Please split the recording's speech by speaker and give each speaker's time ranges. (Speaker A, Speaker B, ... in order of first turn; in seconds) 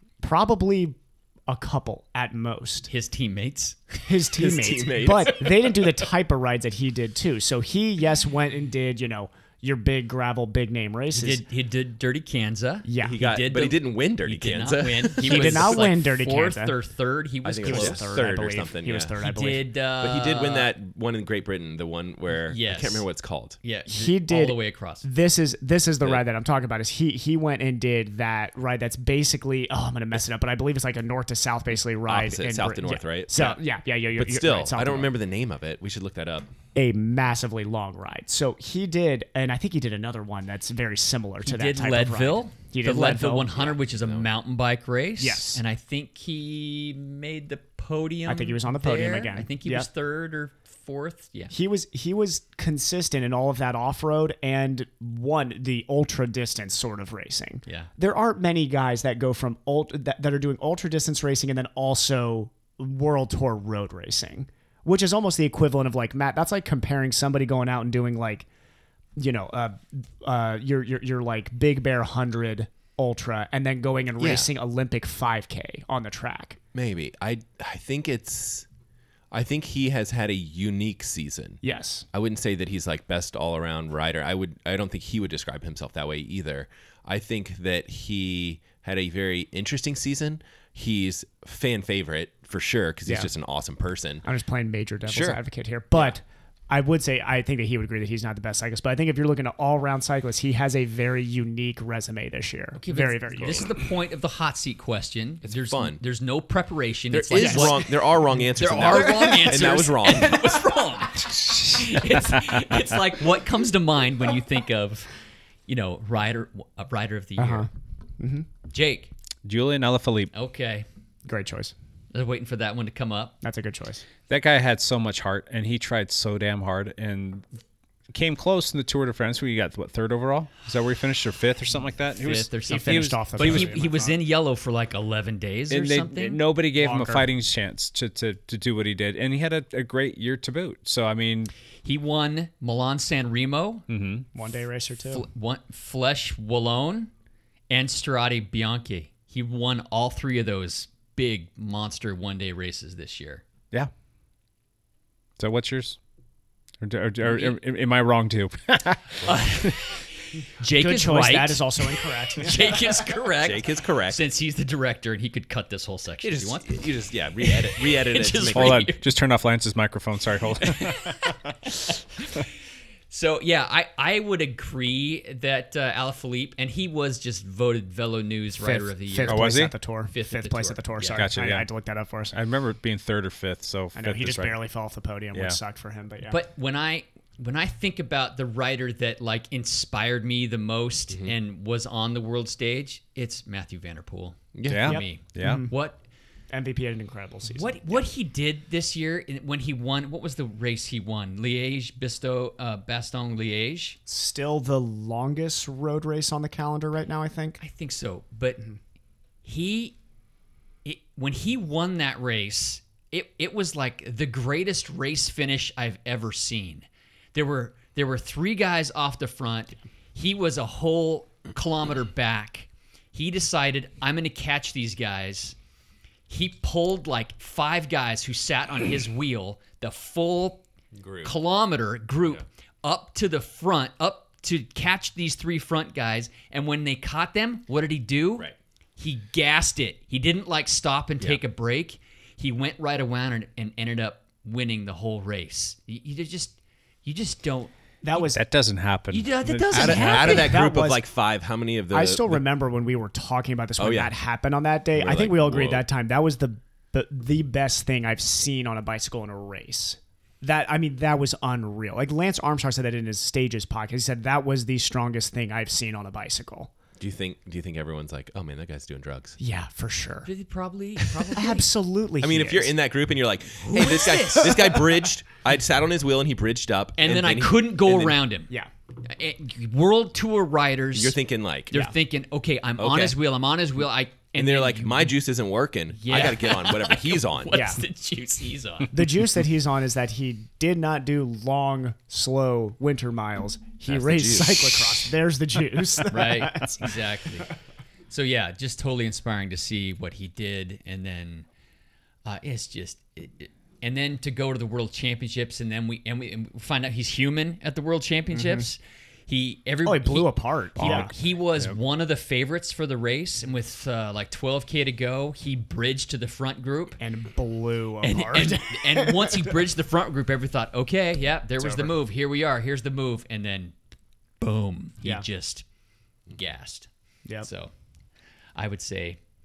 Speaker A: 0.2-2.9, 4.0-11.4, 12.8-13.2, 15.2-16.8, 17.6-19.7, 23.9-35.1, 36.7-43.5, 45.2-45.6, 48.2-49.9, 51.5-68.5, 69.2-76.6, 81.6-82.0, 94.2-103.7, 107.3-107.8, 108.9-109.6, 117.4-118.5, 121.2-121.7, 123.4-124.0, 132.7-134.2, 136.8-137.3, 144.3-145.2, 160.7-162.8, 178.6-182.4, 183.9-186.4, 194.8-195.7, 196.5-198.1, 204.1-207.6, 248.0-248.4, 250.3-251.0, 251.9-266.7, 269.4-270.3, 271.3-272.7, 274.4-274.8, 287.5-287.8, 288.9-297.0, 308.3-308.7, 309.8-311.1, 317.0-319.6, 321.6-321.9
Speaker B: 2.9-4.1, 11.1-18.1, 19.2-20.7, 22.5-23.1, 23.6-25.0, 41.4-51.5, 102.8-108.0, 108.6-115.1, 115.7-117.7, 118.7-119.1, 120.3-120.8, 122.1-123.4, 132.2-136.4, 141.8-143.8, 145.0-147.1, 147.7-153.4, 157.2-157.6, 159.2-166.8, 167.4-169.0, 170.6-172.4, 173.1-181.3, 186.3-196.0, 197.5-204.0, 207.6-208.7, 209.4-210.0, 210.8-225.6, 226.3-230.6, 231.2-238.5, 239.0-247.7, 249.1-250.6, 270.2-271.7, 273.6-274.8, 277.0-278.5, 279.0-281.1, 281.7-285.1, 285.9-288.9, 296.1-297.5, 298.1-301.5, 302.2-317.0, 318.0-323.7, 324.4-325.6, 326.3-326.9, 327.4-327.7, 328.5-329.2
Speaker C: 4.3-5.9, 13.0-15.9, 17.4-19.2, 20.0-23.6, 32.0-33.6, 34.1-36.5, 43.5-44.3, 74.2-74.5, 76.7-78.7, 79.3-94.2, 95.0-95.4, 105.4-106.0, 107.1-110.4, 163.4-164.2, 166.2-168.8, 194.5-194.9, 230.9-231.3, 249.7-252.4, 253.8-254.1, 254.9-255.8, 267.0-269.4, 272.2-278.2, 280.9-281.7, 282.8-283.2, 284.3-287.6, 293.9-295.2
Speaker D: 111.6-112.5, 119.4-120.3, 124.3-127.5, 128.1-133.7, 135.7-141.5, 143.9-144.3, 155.4-156.0, 156.8-159.8, 168.5-171.3, 179.2-179.7, 181.1-181.7, 182.3-184.6, 185.3-185.6, 194.7-195.7, 248.1-250.4, 310.8-311.8